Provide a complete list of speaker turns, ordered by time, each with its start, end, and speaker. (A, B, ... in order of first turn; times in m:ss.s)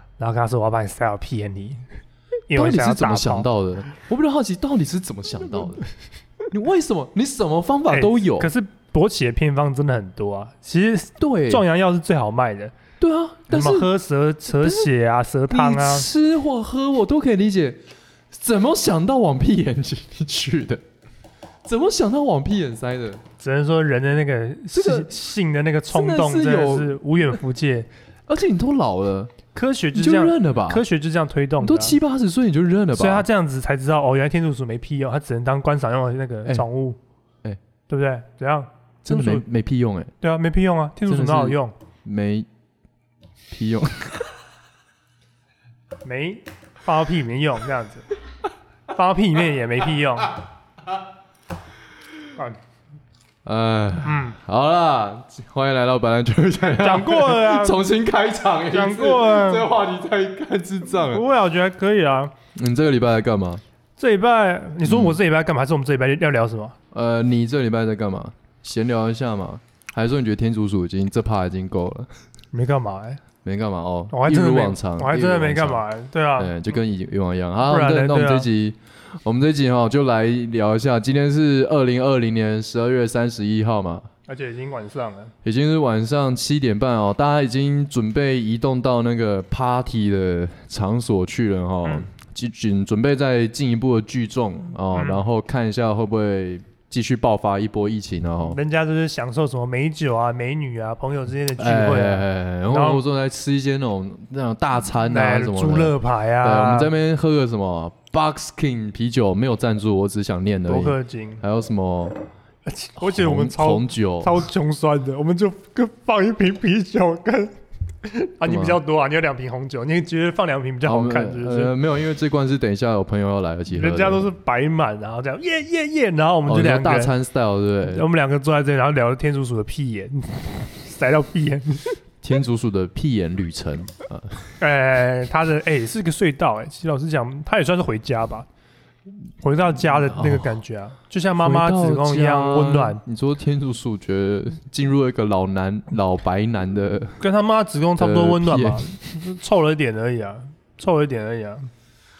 0:00.2-0:01.8 A
0:02.5-0:03.5 A
0:02.5-0:05.8 B
0:06.5-0:08.5 B
0:07.9-0:12.7 A
0:11.2-0:11.6 B
0:13.0-0:13.9 B
0:13.5-0:16.1 A
0:14.6-0:14.9 B
0:15.5-0:17.8 B
0:18.3-0:20.8 B
0:21.6-0:23.2 B
0:23.4-0:27.9 A
0:24.7-0:25.1 B
0:25.9-0:27.3 B
0:28.3-0:29.4 B
0:29.5-0:32.0 A
0:29.9-0:30.8 B
0:31.6-0:33.3 B
0:32.9-0:37.0 A
0:37.9-0:39.4 A
0:39.0-0:40.1 B
0:40.2-0:41.7 A
0:41.0-0:42.5 B
0:43.5-0:44.3 B
0:46.0-0:48.1 A
0:48.9-0:50.4 A
0:53.4-1:01.2 B
0:54.0-0:54.4 A
0:56.8-0:57.8 A
0:58.7-0:59.7 A
1:01.0-1:02.3 A
1:02.5-1:03.6 B
1:04.0-1:06.8 A
1:04.8-1:05.2 B
1:06.9-1:12.1 B
1:12.5-1:13.2 A
1:13.4-1:15.8 B
1:14.1-1:16.5 A
1:16.4-1:24.1 B
1:17.6-1:18.5 A
1:24.3-1:25.3 A
1:25.4-1:38.6 B
1:34.9-1:35.2 A
1:38.5-1:43.0 A
1:41.6-1:52.2 B
1:45.0-1:46.9 A
1:50.7-1:51.4 A
1:52.6-2:01.7 A
1:53.0-1:54.4 B
1:58.4-1:58.8 B
2:00.8-2:04.3 B
2:03.7-2:07.1 A
2:06.5-2:08.1 B
2:07.8-2:12.0 A
2:12.2-2:14.5 B
2:14.6-2:18.5 A
2:19.4-2:23.0 A
2:19.9-2:20.6 B
2:21.4-2:27.2 B
2:27.2-2:31.7 A
2:28.0-2:28.8 B